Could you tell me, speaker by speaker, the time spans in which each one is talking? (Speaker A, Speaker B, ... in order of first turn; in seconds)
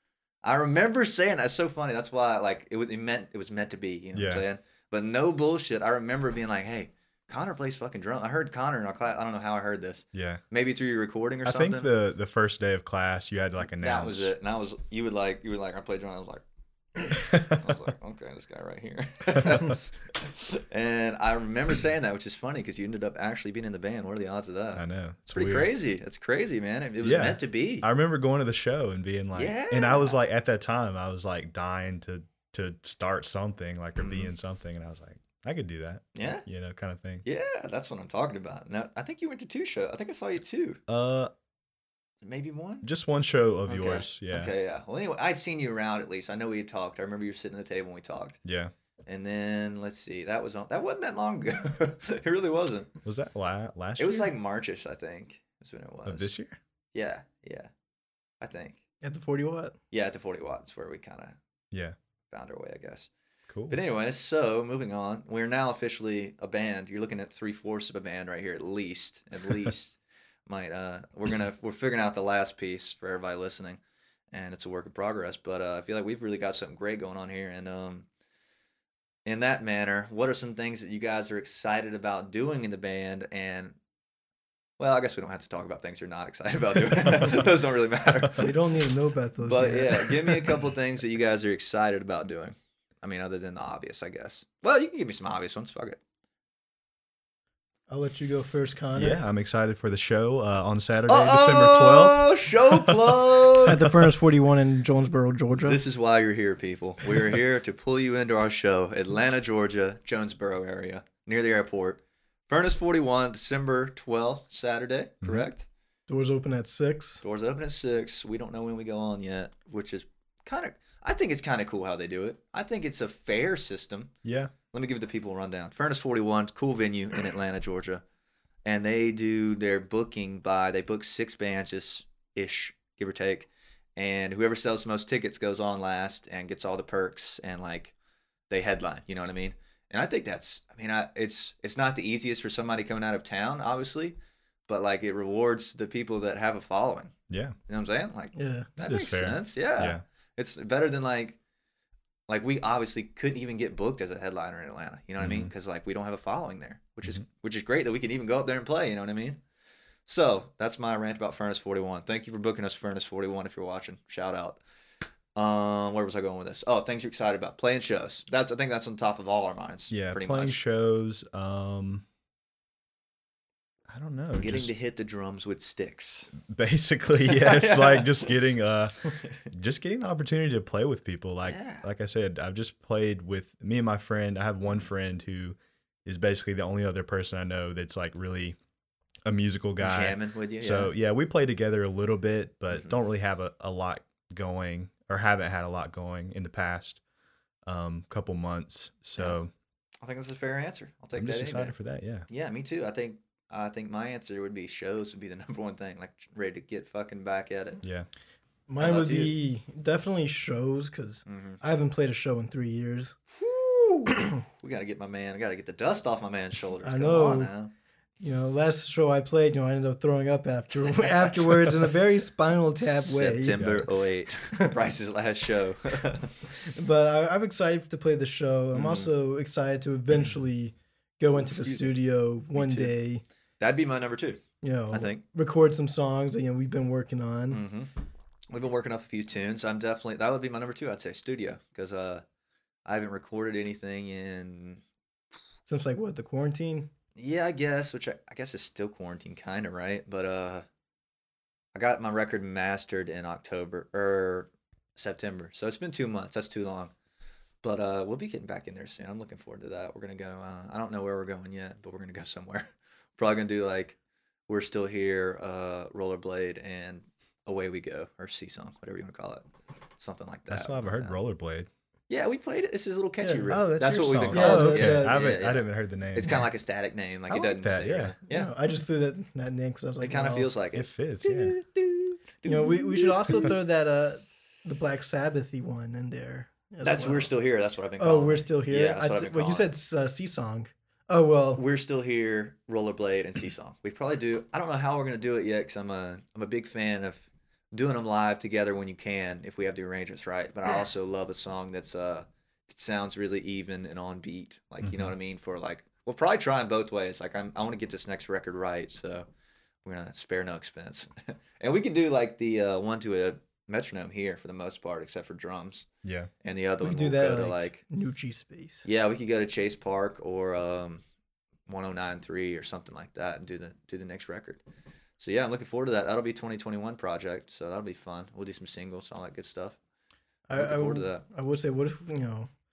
Speaker A: 0.4-11.9, 13.8-16.4, 17.0-27.9, 29.4-30.2, 34.0-34.3, 36.1-36.5, 37.2-40.8, 42.2-42.9, 43.7-48.4, 49.1-52.9, 54.0-56.3, 56.9-57.7, 58.4-58.8, 59.9-61.4, 62.3-63.1, 63.7-73.8, 74.3-78.1, 79.3-83.8, 84.8-88.5, 89.4-96.0, 101.1-103.8, 105.6-115.7, 117.2-124.1, 124.7-128.0, 128.7-137.9, 138.5-144.2, 144.7-147.2, 147.7-151.4, 152.3-159.4, 160.1-164.6, 165.4-170.6, 174.4-176.3, 177.2-178.3, 179.2-179.4, 181.4-181.8, 184.6-184.9, 189.8-190.9, 192.7-193.0, 200.0-201.8, 202.3-207.8, 208.8-209.3, 211.3-211.6, 213.4-217.7, 220.9-221.8, 222.8-226.5, 228.7-229.1, 231.4-231.9, 232.5-232.9, 233.6-235.2, 237.5-237.9, 238.5-242.2, 242.9-244.8, 247.2-250.7, 251.7-256.9, 257.6-262.7, 263.2-264.0, 264.5-269.4, 270.0-271.2, 272.1-278.5, 280.0-283.5, 286.8-289.7, 291.6-309.3, 309.8-315.9, 316.4-317.8, 318.9-321.0, 321.7-324.6, 325.2-329.8, 330.5-331.2
Speaker B: 4.1-4.4, 10.1-10.4, 11.4-14.3, 17.3-17.8, 19.4-19.7, 24.8-25.7, 27.0-37.2, 40.9-41.3, 42.8-44.5, 48.5-48.7, 53.0-54.3, 56.1-56.6, 63.5-63.8, 99.0-103.2, 115.2-115.5, 124.2-124.5, 147.3-147.6, 148.8-150.0, 155.2-155.5, 169.9-172.1, 173.9-174.7, 176.4-188.6, 189.2-197.0, 197.7-199.5, 201.2-202.3, 207.8-208.1, 223.6-223.9, 270.5-271.7, 273.5-276.4, 277.3-278.1, 280.7-281.6, 304.8-305.1, 316.0-316.3
Speaker C: 59.0-59.8, 88.3-90.5, 97.9-99.2, 103.7-105.8, 116.1-117.2, 148.3-148.7, 208.7-213.2, 216.8-217.5, 218.2-223.7, 226.6-233.2, 234.6-237.6, 245.7-246.9, 273.2-275.3, 278.3-280.5, 282.4-287.3, 288.0-291.6, 316.8-318.8, 330.5-332.5